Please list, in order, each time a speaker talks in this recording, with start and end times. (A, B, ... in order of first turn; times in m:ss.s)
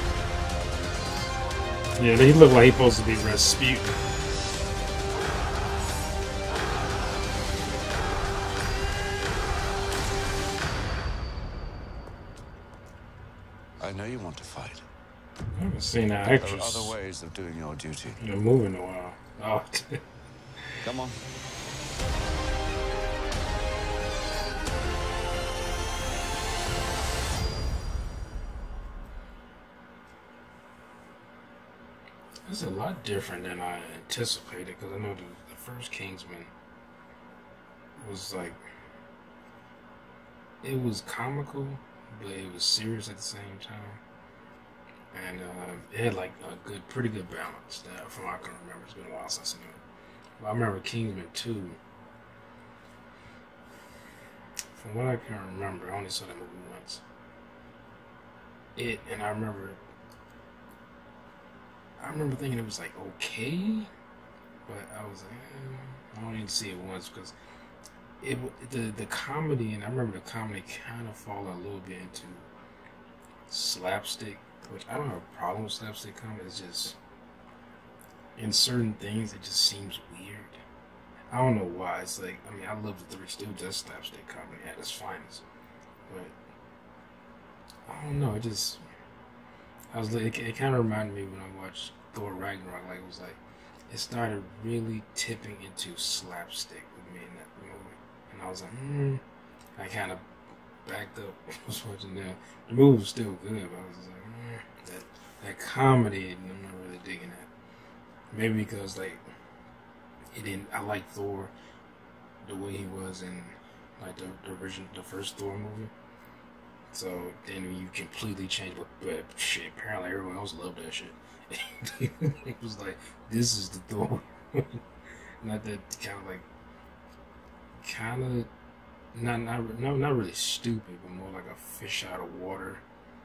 0:02.0-0:04.0 A
0:13.8-0:14.8 B
0:15.5-0:16.9 A
0:16.3-0:18.2 B
0:18.2-0:20.0 A
0:20.8-0:21.2 B
0:32.5-0:36.5 A
0:38.0-0:38.6 A
0:40.6-0:44.0 A
0:45.1-0:49.8 A
0:50.4-0:51.8 A
0:54.8-0:57.0 A
0:58.8-0:59.8 A
1:02.0-1:03.9 A
1:04.7-1:07.4 A
1:08.2-1:12.5 A
1:13.5-1:17.0 A
1:18.4-1:20.6 A
1:21.3-1:25.5 A
1:26.1-1:26.4 A
1:27.9-1:28.8 A
1:29.9-1:39.2 A
1:39.8-1:40.2 A
1:40.8-1:47.5 A
1:48.3-1:49.2 A
1:50.3-1:51.5 A
1:52.4-1:55.9 A
1:56.9-2:04.8 A
2:05.4-2:06.4 A
2:07.8-2:08.5 A
2:09.1-2:12.8 A